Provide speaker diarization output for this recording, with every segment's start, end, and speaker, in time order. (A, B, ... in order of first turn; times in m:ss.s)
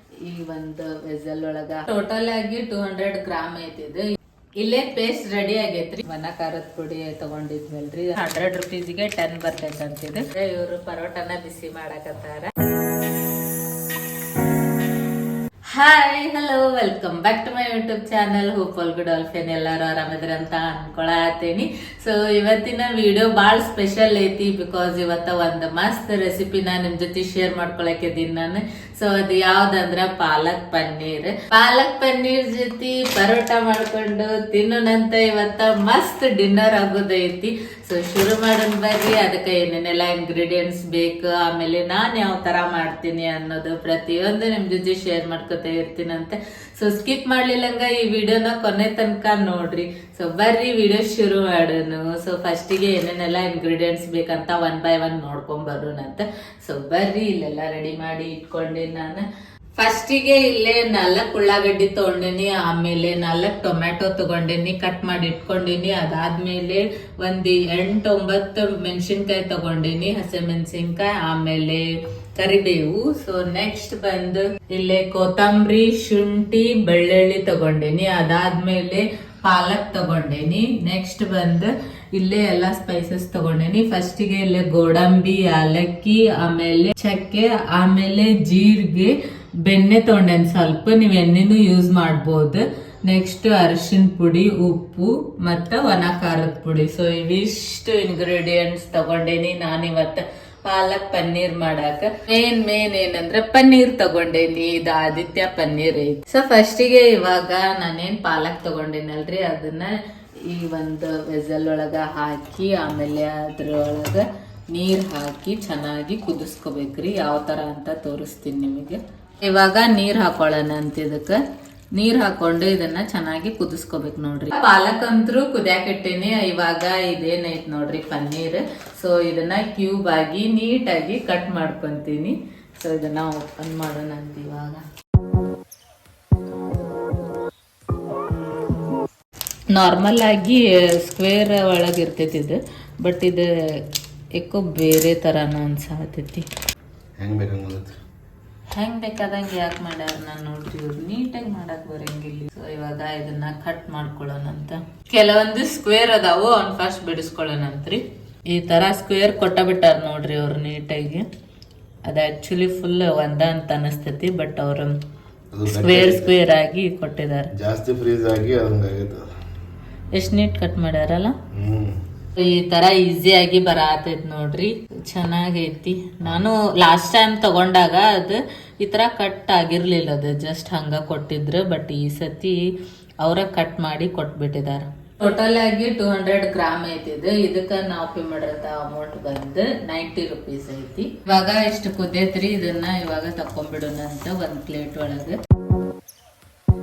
0:00.2-0:04.0 A
0:04.6-0:12.5 A
0:15.7-0:59.2 A
0:59.8-1:49.9 A
1:50.4-2:01.4 A
2:01.9-2:14.8 A
2:19.7-2:26.4 A
2:27.2-2:27.9 B
2:28.7-2:41.3 A
2:42.0-2:45.0 A
2:45.5-2:46.4 B
2:45.7-2:47.5 A
2:47.5-2:49.2 B
2:50.1-2:51.4 A
2:51.5-2:52.0 B
2:52.4-3:15.4 A